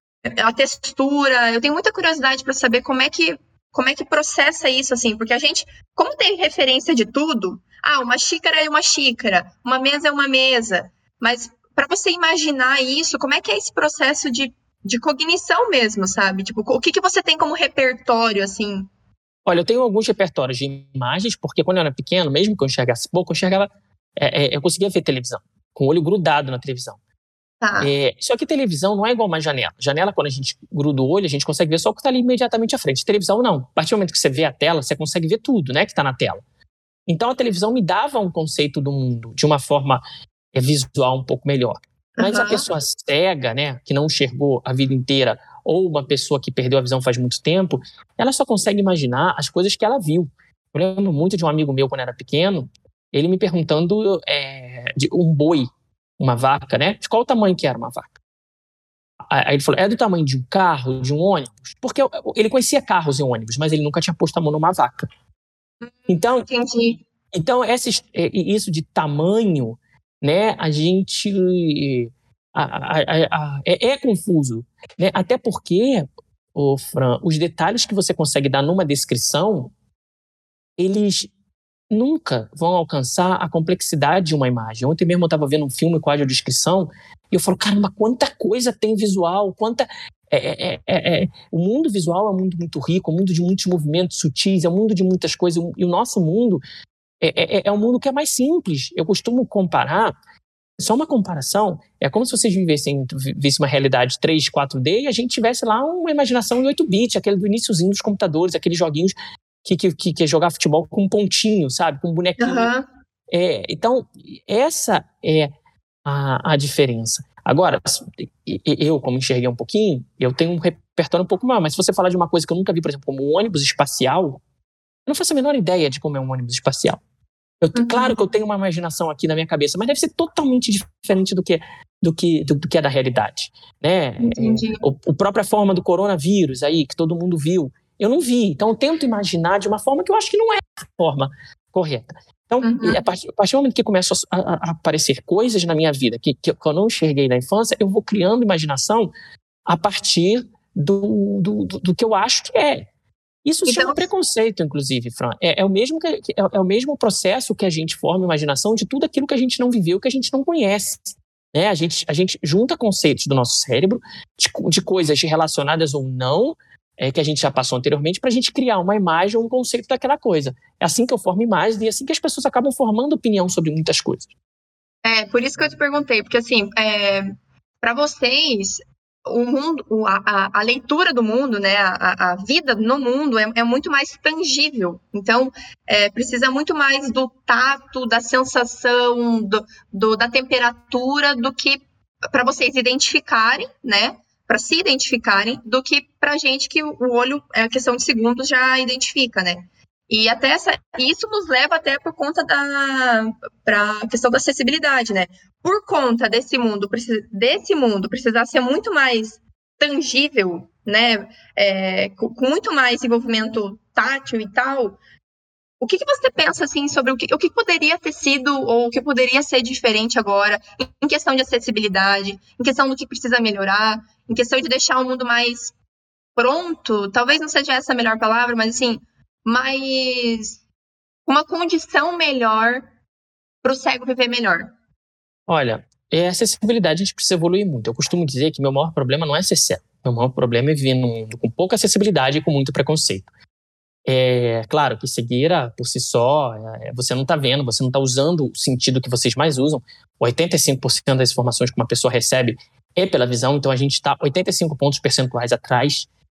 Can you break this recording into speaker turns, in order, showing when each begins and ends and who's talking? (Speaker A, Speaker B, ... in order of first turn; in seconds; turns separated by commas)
Speaker A: 0.2-18.9, Speaker B: 19.4-27.0, Speaker A: 27.6-27.9, Speaker B: 27.8-36.4, Speaker B: 37.1-40.0, Speaker B: 40.5-55.7, Speaker A: 42.2-42.6, Speaker B: 56.2-58.1, Speaker B: 59.3-65.0, Speaker A: 65.8-67.0, Speaker B: 66.1-66.5, Speaker B: 67.3-79.7, Speaker B: 80.8-81.3, Speaker B: 81.9-96.6, Speaker B: 97.2-100.1, Speaker B: 100.8-109.1, Speaker B: 109.6-112.7, Speaker A: 112.4-112.8, Speaker B: 113.3-115.5, Speaker B: 116.0-124.4, Speaker B: 125.1-127.0, Speaker B: 127.6-149.1, Speaker A: 127.7-128.2, Speaker A: 134.2-134.8, Speaker A: 142.6-143.0, Speaker B: 149.7-152.9, Speaker B: 153.4-174.3, Speaker A: 153.7-154.1, Speaker A: 175.0-215.0, Speaker A: 215.8-225.7, Speaker A: 226.3-230.6, Speaker A: 231.2-232.9, Speaker A: 233.6-234.7, Speaker B: 235.5-243.3, Speaker B: 244.1-256.1